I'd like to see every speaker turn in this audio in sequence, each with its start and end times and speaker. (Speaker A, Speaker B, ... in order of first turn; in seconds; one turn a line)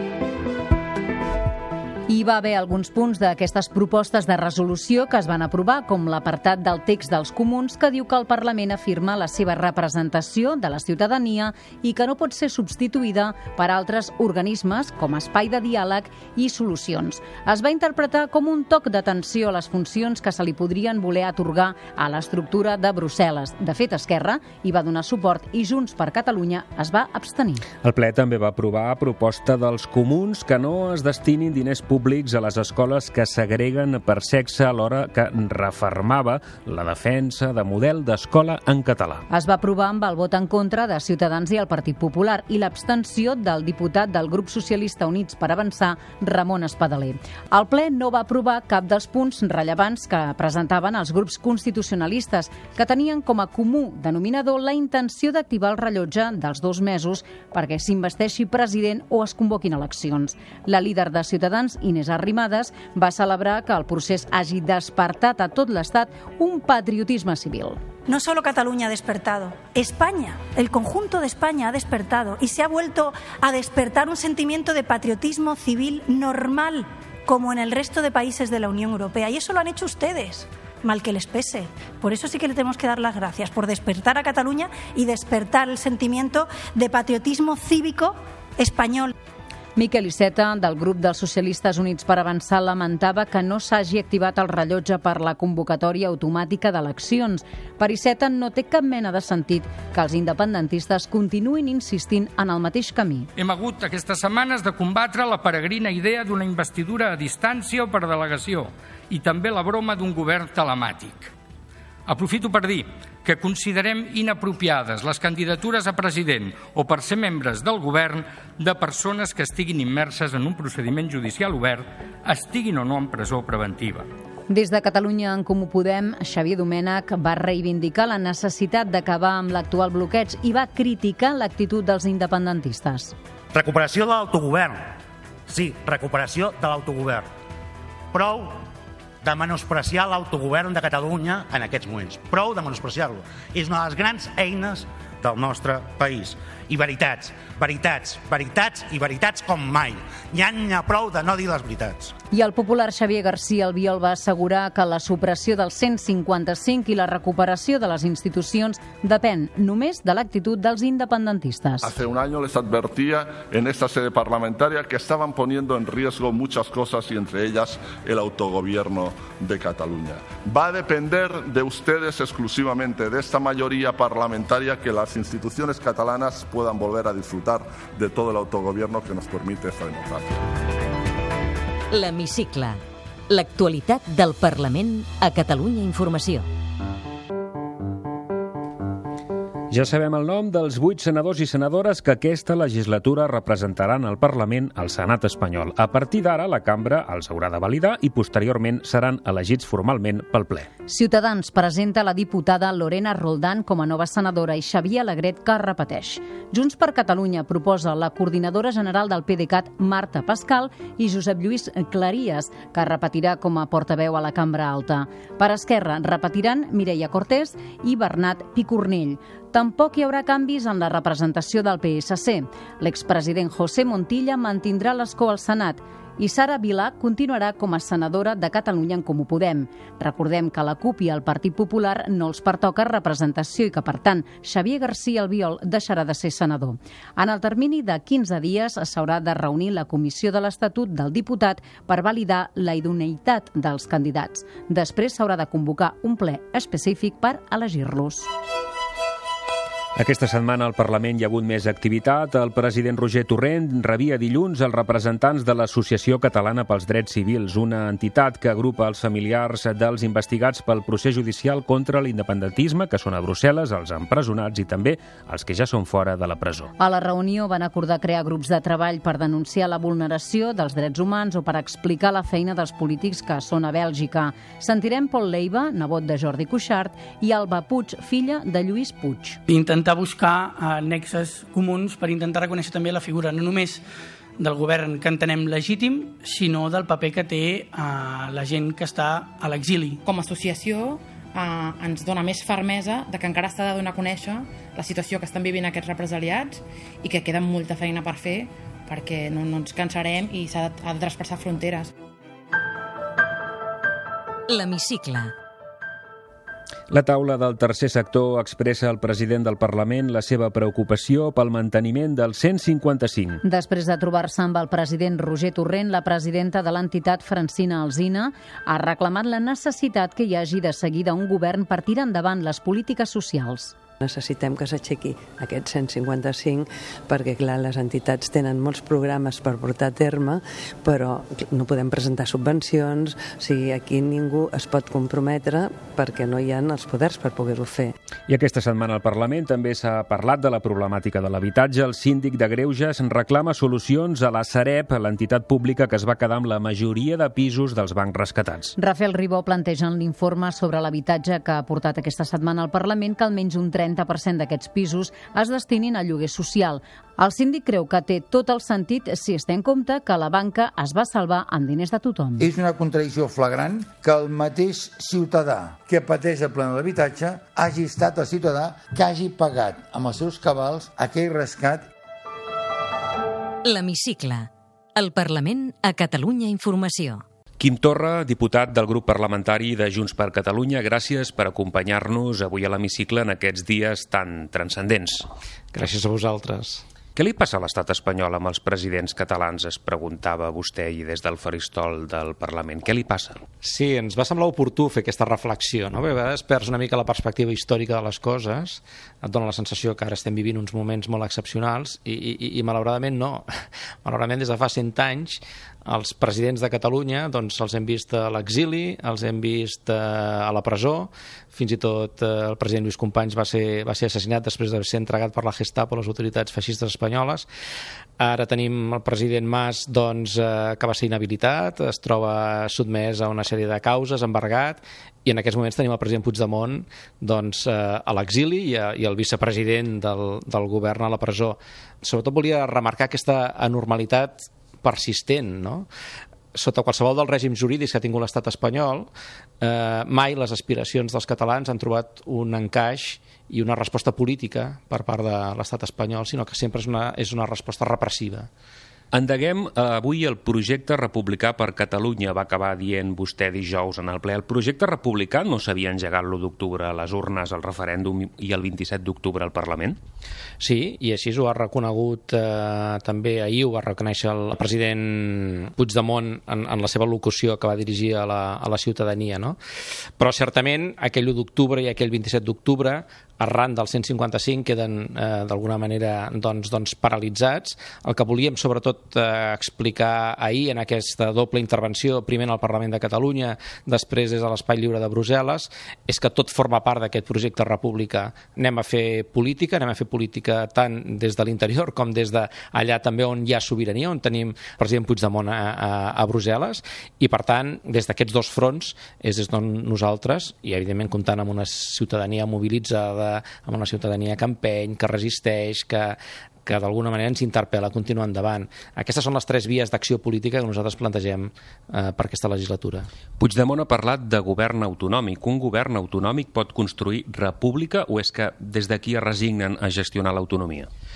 Speaker A: 2.1-27.6
Speaker B: 27.8-39.2
Speaker A: 39.3-67.8
Speaker C: 68.1-89.1
Speaker A: 89.8-103.3
Speaker D: 103.4-111.3
Speaker D: 112.1-124.1
Speaker A: 124.5-133.1
Speaker E: 133.5-134.9
Speaker E: 135.5-137.3
Speaker E: 138.1-138.6
Speaker E: 139.2-152.1
Speaker A: 152.3-161.9
Speaker F: 161.8-180.4
Speaker G: 181.9-186.5
Speaker B: 189.7-200.7
Speaker A: 200.9-248.3
Speaker B: 249.9-266.7
Speaker A: 266.8-279.4
Speaker H: 279.5-283.8
Speaker H: 284.4-290.0
Speaker I: 290.0-301.9
Speaker G: 304.5-305.3
Speaker B: 306.9-313.4
Speaker A: 313.4-323.7
Speaker J: 324.0-337.9
Speaker B: 338.3-348.7
Speaker A: 348.8-362.5
Speaker K: 362.4-371.9
Speaker G: 373.6-377.2
Speaker B: 377.6-385.3
Speaker L: 385.7-386.8
Speaker B: 387.1-393.4
Speaker L: 393.6-403.5
Speaker L: 404.0-417.5
Speaker L: 418.2-435.9
Speaker L: 436.5-439.1
Speaker L: 439.6-448.5
Speaker B: 449.1-460.0
Speaker L: 460.6-469.6
Speaker L: 470.2-513.1
Speaker B: 513.4-520.9